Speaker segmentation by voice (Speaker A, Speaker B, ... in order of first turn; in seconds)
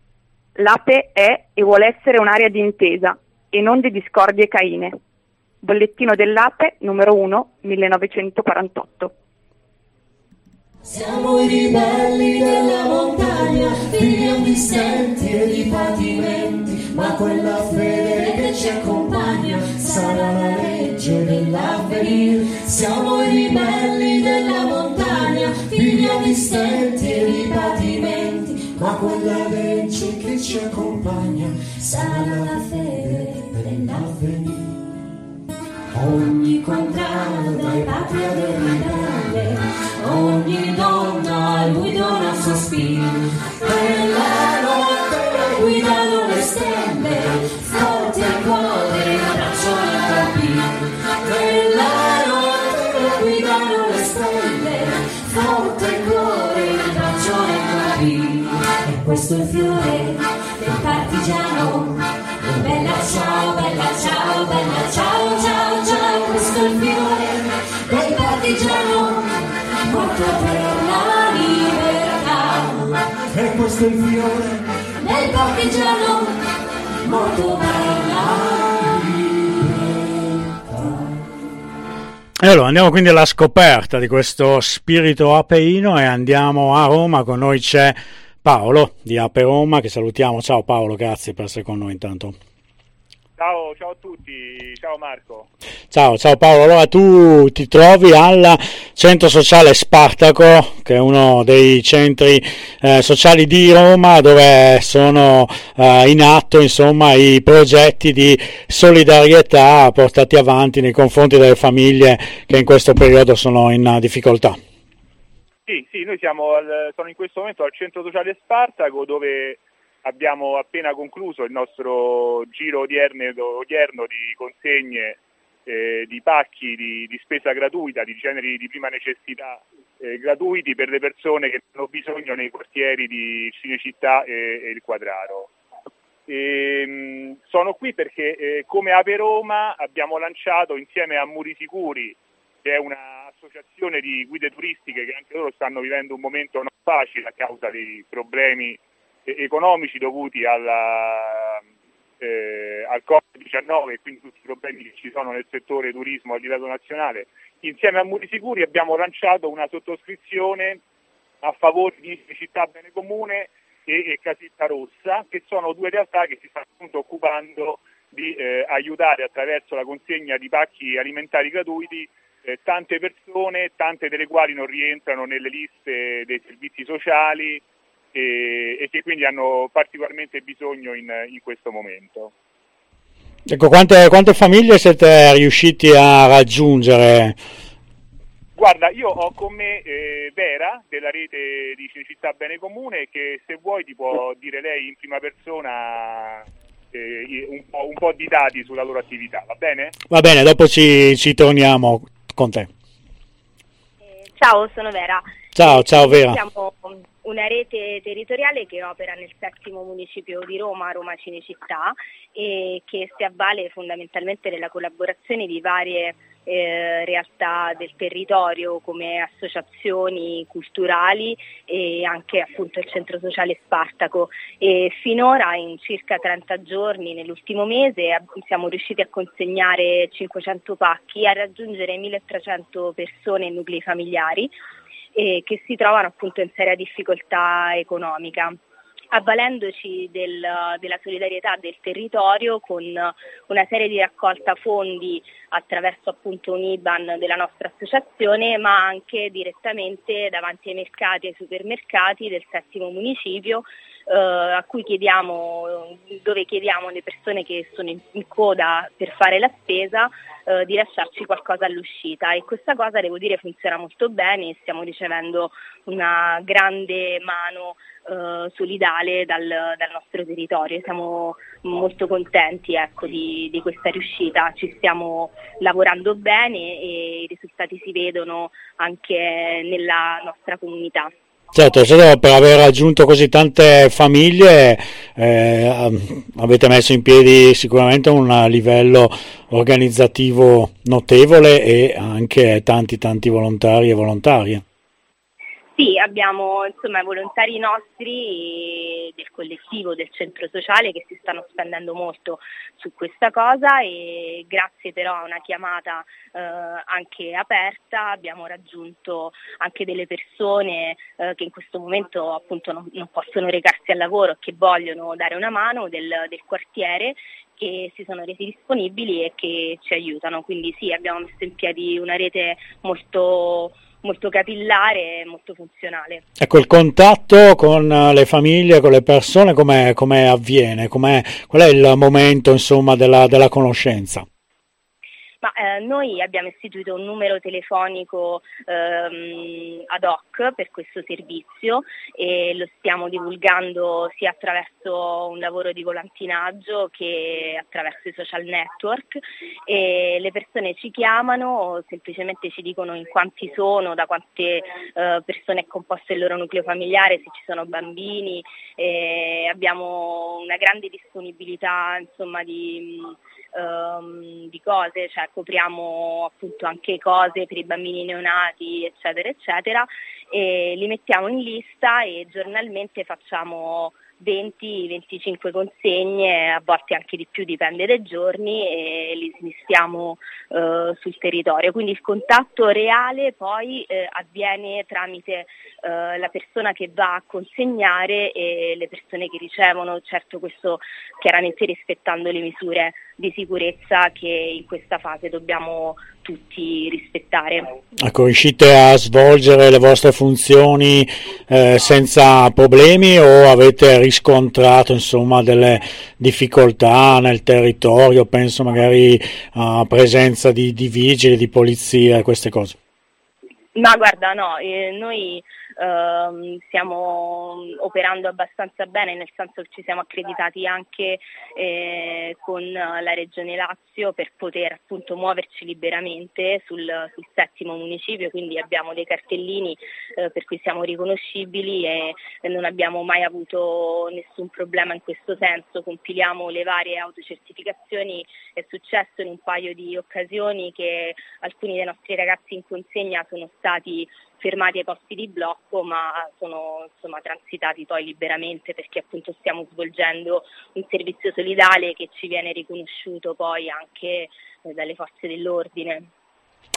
Speaker A: 0.6-5.0, 5.6-9.1
Speaker B: 10.9-34.8, 35.9-76.4, 77.0-81.1
Speaker C: 82.4-92.4, 95.9-114.6, 183.5-187.3, 200.1-202.7, 205.5-206.4, 281.5-294.6, 326.4-334.2, 398.0-412.8
Speaker D: 93.4-95.5, 115.7-135.5, 136.3-151.6, 152.2-160.8, 161.4-177.6, 178.1-182.3, 188.6-199.9
Speaker E: 204.3-234.5, 235.1-238.6, 239.1-281.1, 295.7-326.2, 335.4-397.8, 413.7-456.1